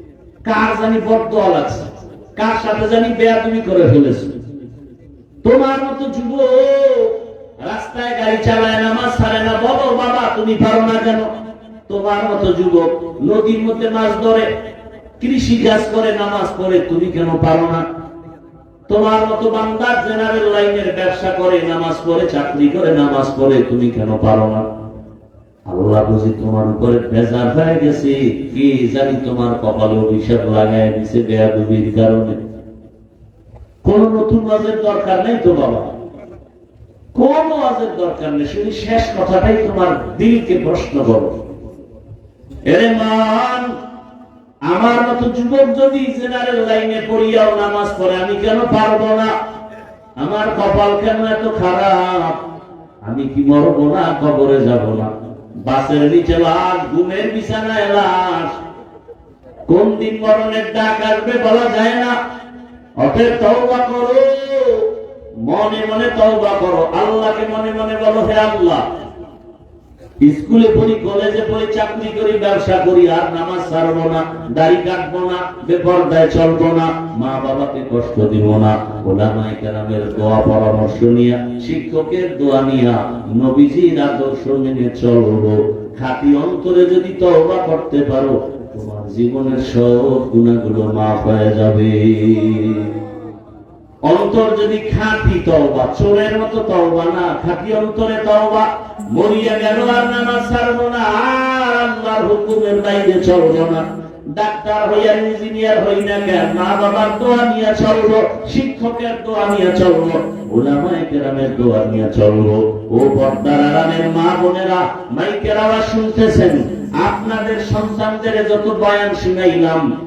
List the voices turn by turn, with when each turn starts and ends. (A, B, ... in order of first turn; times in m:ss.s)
0:00.4-0:04.4 A
0:05.4-0:11.3 A
0:11.9-0:14.5 A
0:15.2-0:17.8 A
0:18.9-0:24.7 A
0:25.7-0:32.4 A
0:33.8-0:35.9 A
0:37.2-0:41.4 A
0:42.7-0:43.7 A
0:44.7-0:49.3 A
0:50.2-0:52.4 A
0:53.0-0:55.1 A
0:55.6-0:58.6 A
0:59.7-1:02.2 A
1:03.0-1:04.9 A
1:05.4-1:08.8 A
1:10.2-1:33.0 A
1:34.1-1:59.8 A